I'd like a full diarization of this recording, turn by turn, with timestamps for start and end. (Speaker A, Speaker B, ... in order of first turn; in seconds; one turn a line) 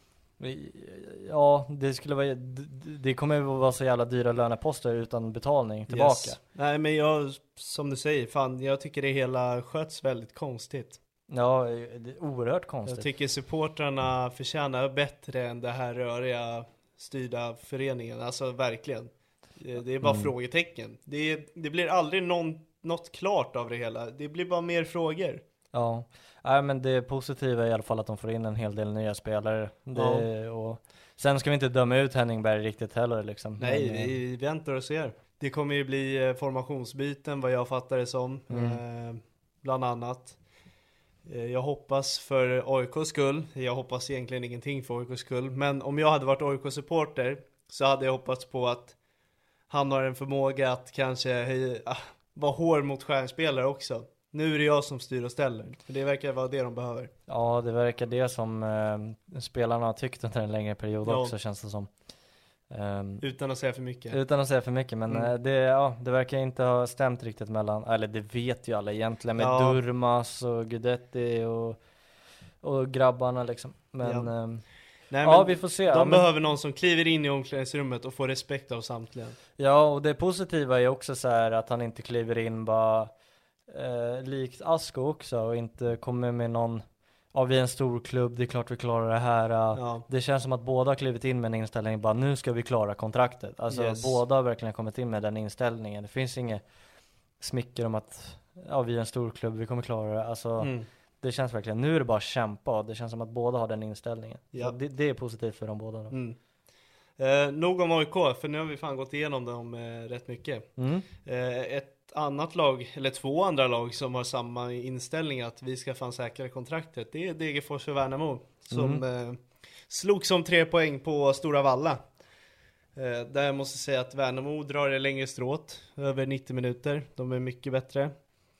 Speaker A: 0.4-6.4
Speaker B: 5.9-11.0
Speaker A: 11.3-13.1
Speaker B: 12.9-25.4
Speaker A: 20.0-20.3
Speaker A: 25.7-34.1
Speaker B: 29.9-30.3
Speaker B: 33.6-40.4
Speaker A: 38.5-38.8
Speaker B: 41.2-48.9
Speaker B: 49.7-57.1
Speaker A: 57.3-61.9
Speaker B: 61.0-61.3
Speaker A: 62.7-63.2
Speaker B: 63.2-64.2
Speaker A: 64.1-71.8
Speaker B: 69.4-69.8
Speaker A: 72.6-74.6
Speaker B: 74.0-74.3
Speaker B: 75.1-79.4
Speaker A: 75.2-76.3
Speaker A: 79.6-83.1
Speaker A: 83.7-96.6
Speaker B: 89.7-90.0
Speaker B: 93.7-94.1
Speaker A: 97.4-106.1
Speaker B: 100.6-100.9
Speaker B: 106.1-106.4
Speaker B: 107.2-110.7
Speaker A: 110.8-111.1
Speaker B: 111.2-122.0
Speaker A: 118.7-119.0
Speaker B: 123.0-128.1